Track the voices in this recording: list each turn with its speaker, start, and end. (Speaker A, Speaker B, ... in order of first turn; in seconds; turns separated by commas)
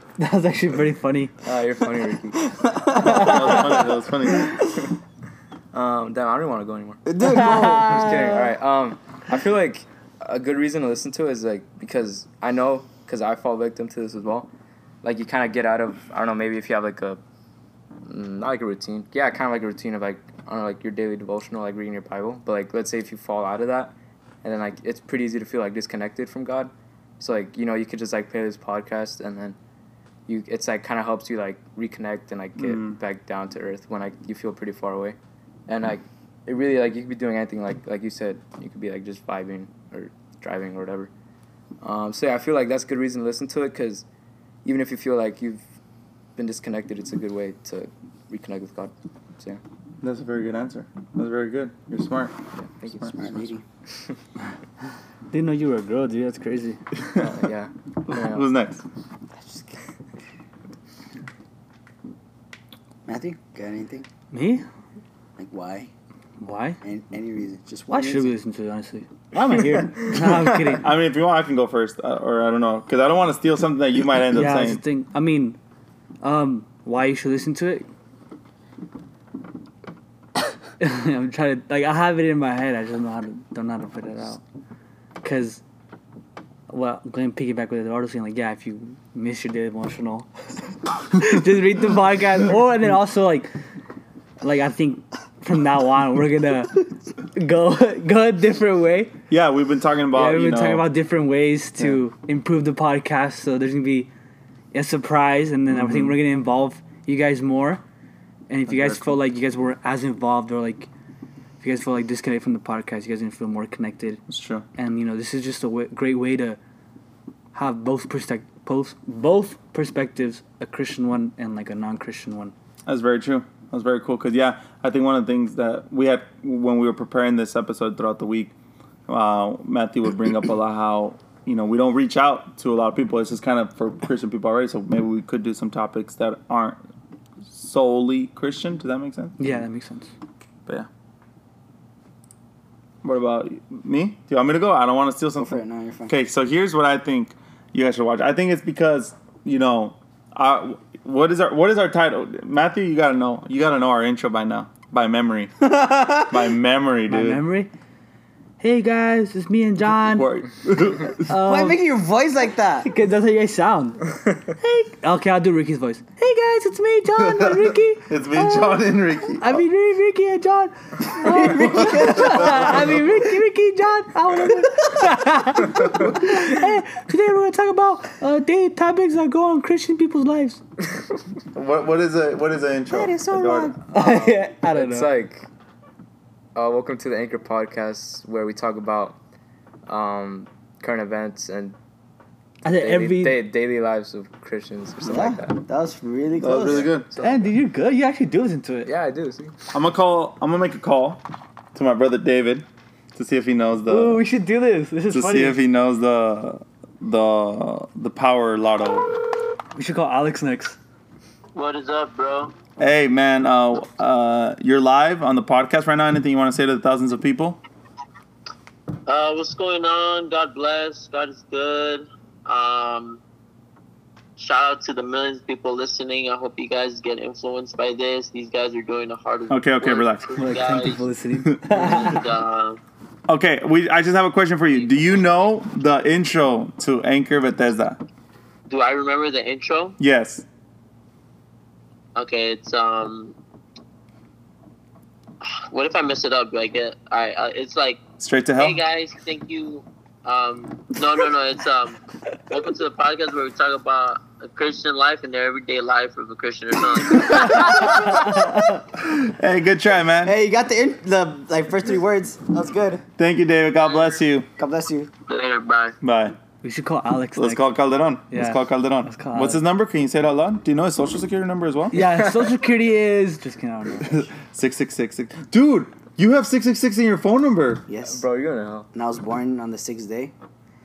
Speaker A: 0.2-1.4, Speaker B: 1.4-2.4, Speaker A: 2.4-4.5, Speaker C: 2.8-3.4, Speaker D: 3.0-4.6, Speaker B: 5.7-14.5, Speaker C: 7.1-8.3, Speaker A: 7.3-8.3, Speaker B: 15.0-17.2, Speaker B: 18.1-29.6, Speaker B: 30.3-35.2, Speaker D: 32.6-33.0, Speaker B: 35.7-41.1, Speaker B: 41.8-44.0, Speaker B: 44.6-45.6, Speaker B: 46.4-49.6, Speaker D: 50.0-52.4, Speaker B: 52.6-53.5, Speaker C: 53.0-53.6, Speaker A: 55.3-56.8, Speaker B: 57.1-58.5, Speaker D: 58.1-58.8, Speaker C: 59.4-59.7, Speaker C: 63.1-64.1, Speaker A: 64.3-64.7, Speaker C: 65.4-65.9, Speaker A: 66.4-66.8, Speaker C: 66.8-68.3, Speaker A: 67.9-70.9, Speaker D: 70.2-74.8, Speaker A: 74.3-75.6, Speaker A: 76.2-77.9, Speaker A: 80.8-84.4, Speaker A: 85.2-85.6, Speaker A: 86.7-90.3, Speaker A: 91.0-93.5, Speaker A: 94.4-99.2, Speaker D: 99.3-100.9, Speaker A: 100.1-104.1, Speaker A: 104.7-107.8, Speaker D: 105.8-106.1, Speaker A: 108.5-110.9, Speaker D: 108.7-109.2, Speaker A: 111.6-114.2, Speaker D: 114.3-114.7, Speaker A: 114.8-116.6, Speaker A: 117.5-122.5, Speaker D: 122.9-128.5, Speaker D: 129.1-136.8, Speaker D: 137.5-139.4, Speaker A: 139.4-140.1, Speaker D: 143.0-157.4, Speaker C: 145.4-146.1, Speaker C: 155.6-156.5, Speaker A: 157.1-157.7, Speaker A: 158.6-160.3, Speaker D: 160.0-161.3, Speaker A: 161.2-161.8, Speaker C: 161.3-162.9, Speaker A: 162.8-180.6, Speaker D: 167.2-169.6, Speaker C: 171.2-172.8, Speaker D: 171.5-173.2, Speaker D: 181.5-183.7, Speaker C: 182.9-183.8, Speaker A: 183.9-185.1, Speaker B: 183.9-185.5, Speaker B: 186.6-189.2, Speaker B: 189.9-191.8, Speaker A: 192.6-193.4, Speaker B: 192.7-195.6, Speaker C: 195.0-196.9, Speaker D: 196.4-197.1, Speaker B: 196.7-197.5, Speaker A: 197.2-198.9, Speaker B: 198.9-199.6, Speaker D: 199.7-201.2, Speaker D: 201.7-204.2, Speaker A: 203.9-205.6, Speaker D: 205.1-209.1, Speaker A: 209.8-210.8, Speaker E: 211.5-212.5, Speaker D: 212.8-217.6, Speaker E: 219.1-223.2, Speaker E: 224.4-231.1, Speaker D: 229.5-230.3, Speaker A: 230.3-232.2, Speaker E: 231.7-232.8, Speaker D: 233.3-238.0, Speaker E: 238.7-240.0, Speaker D: 240.0-240.4, Speaker E: 242.2-243.3, Speaker E: 245.4-248.0, Speaker D: 248.2-248.8, Speaker E: 248.6-258.4, Speaker A: 258.1-258.8, Speaker D: 259.0-260.4, Speaker C: 260.2-263.0, Speaker D: 263.2-264.5, Speaker C: 264.6-265.1, Speaker E: 265.3-266.0, Speaker D: 266.0-266.4, Speaker A: 266.6-267.7, Speaker D: 267.4-272.0, Speaker A: 268.3-269.6, Speaker A: 271.9-274.3, Speaker D: 274.1-277.9, Speaker C: 277.9-278.2, Speaker B: 278.0-278.9, Speaker C: 278.9-280.3